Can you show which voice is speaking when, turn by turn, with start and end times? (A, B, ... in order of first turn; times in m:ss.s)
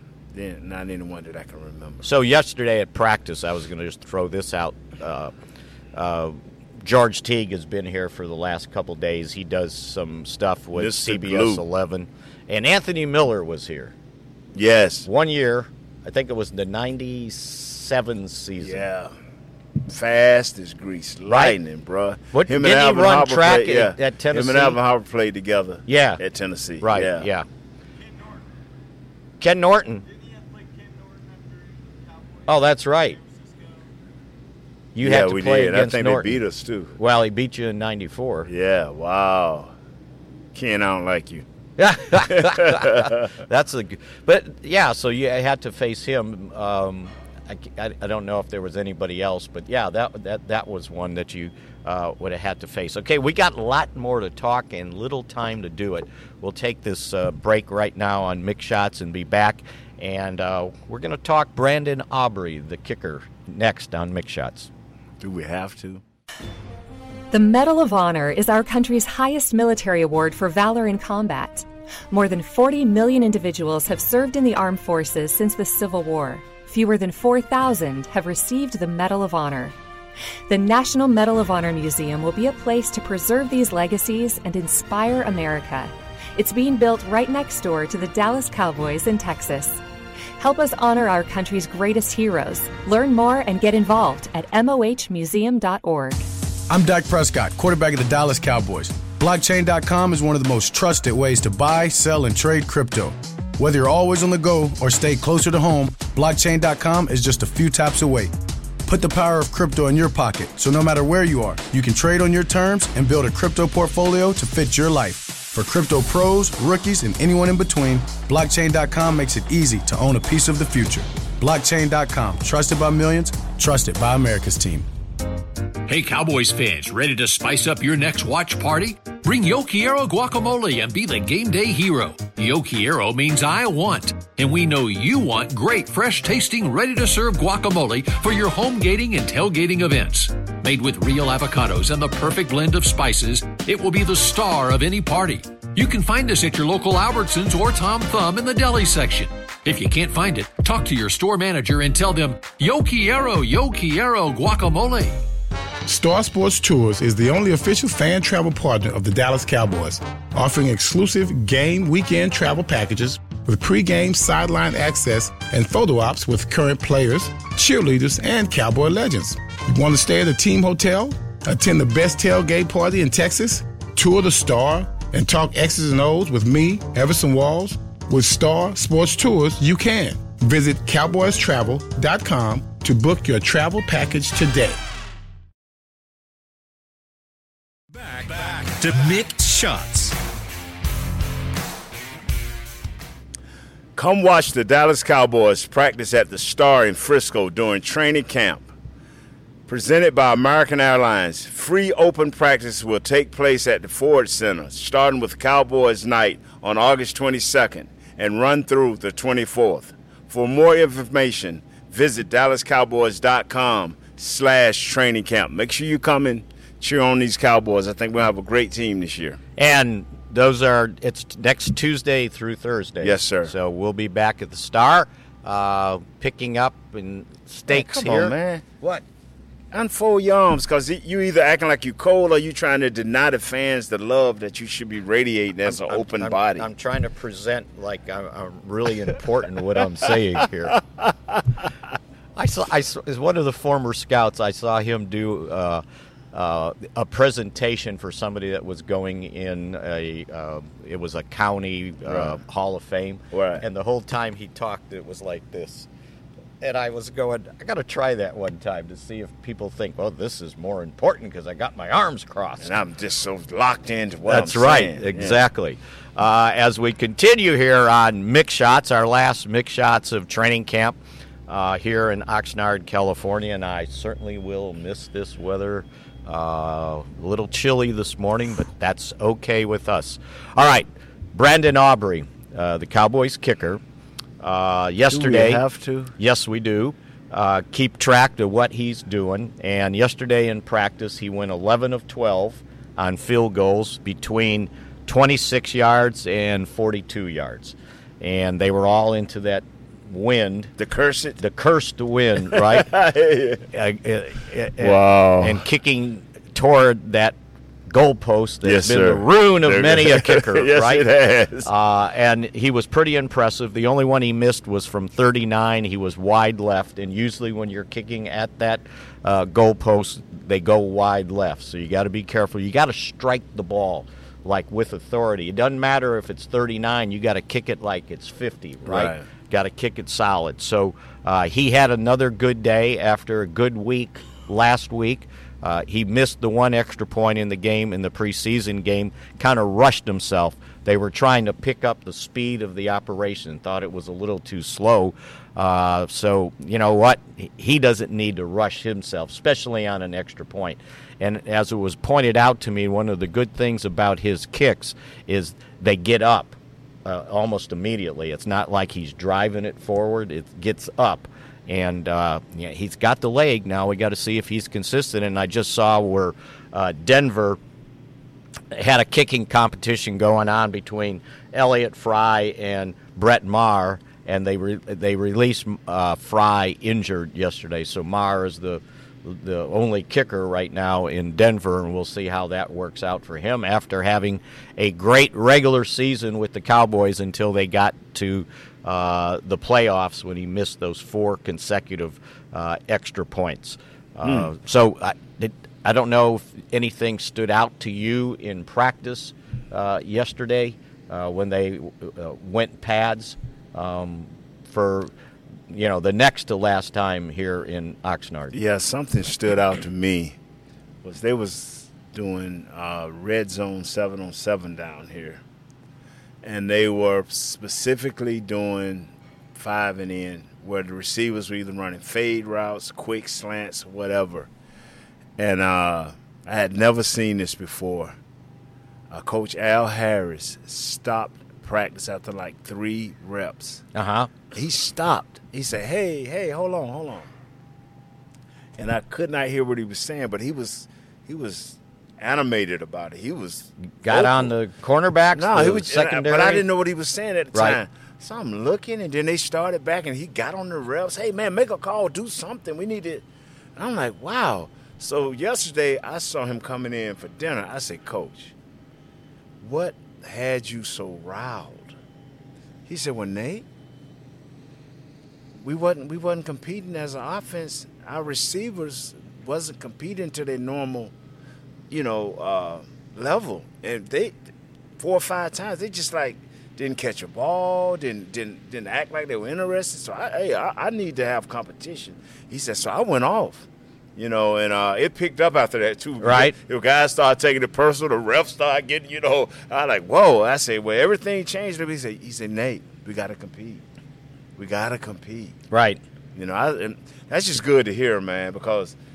0:00.4-0:02.0 A
0:02.0-0:05.3 B
0:06.0-0:13.9 B
0:10.8-0:11.6 A
0:14.6-0:15.1 A
0:15.1-0:18.8 B
0:18.6-0:19.1 A
0:19.9-0:27.3 A
0:21.3-0:21.6 B
0:22.3-0:24.8 B
0:25.9-0:26.2 B
0:26.8-0:27.5 B
0:29.4-0:30.1 B
0:32.5-0:33.2 B
0:35.0-0:36.4 B
0:35.0-0:36.9 A
0:37.0-0:38.5 B
0:38.5-0:39.7 A
0:40.5-0:41.4 A
0:41.8-1:04.7 B
0:42.3-0:43.3 A
1:05.2-1:06.0 A
1:07.3-1:19.8 C
1:20.5-1:29.8 C
1:30.4-1:36.2 C
1:36.7-1:48.3 D
1:48.9-2:04.9 D
2:05.9-2:35.2 E
2:35.9-3:04.8 F
3:07.9-3:10.2 E
3:14.0-3:18.7 A
3:19.7-3:39.4 A
3:39.6-3:49.0 B
3:43.0-3:43.5 A
3:47.7-3:48.6 A
3:49.7-3:56.7 A
3:55.7-4:00.8 B
4:00.8-4:01.4 A
4:02.4-4:15.9 B
4:12.1-4:12.4 A
4:13.3-4:13.6 A
4:16.6-4:22.8 B
4:22.6-4:25.4 A
4:24.3-4:43.8 B
4:44.4-4:45.6 B
4:45.1-4:46.2 A
4:46.2-5:00.7 B
5:00.8-5:01.4 A
5:01.4-5:02.9 B
5:02.5-5:03.7 A
5:03.7-5:07.4 B
5:04.8-5:05.6 A
5:07.9-5:11.0 B
5:08.6-5:11.7 A
5:11.6-6:07.6 B
5:28.9-5:29.2 A
6:08.7-6:45.1 B
6:34.2-6:34.5 A
6:45.7-6:48.5 B
6:48.5-6:50.4 A
6:51.0-6:55.4 A
6:56.4-7:04.5 A
7:05.4-7:08.2 A
7:09.1-7:13.8 A
7:14.0-7:14.3 B
7:14.5-7:17.3 A
7:18.8-7:24.5 A
7:24.0-7:26.6 B
7:25.3-7:33.2 A
7:27.5-7:27.8 B
7:33.8-7:38.5 A
7:39.6-7:42.0 A
7:42.9-7:43.6 A
7:45.6-7:51.1 A
7:51.9-7:54.3 A
7:55.0-8:13.8 A
8:06.2-8:06.6 B
8:14.6-8:15.6 A
8:15.7-8:16.0 B
8:16.4-8:19.0 A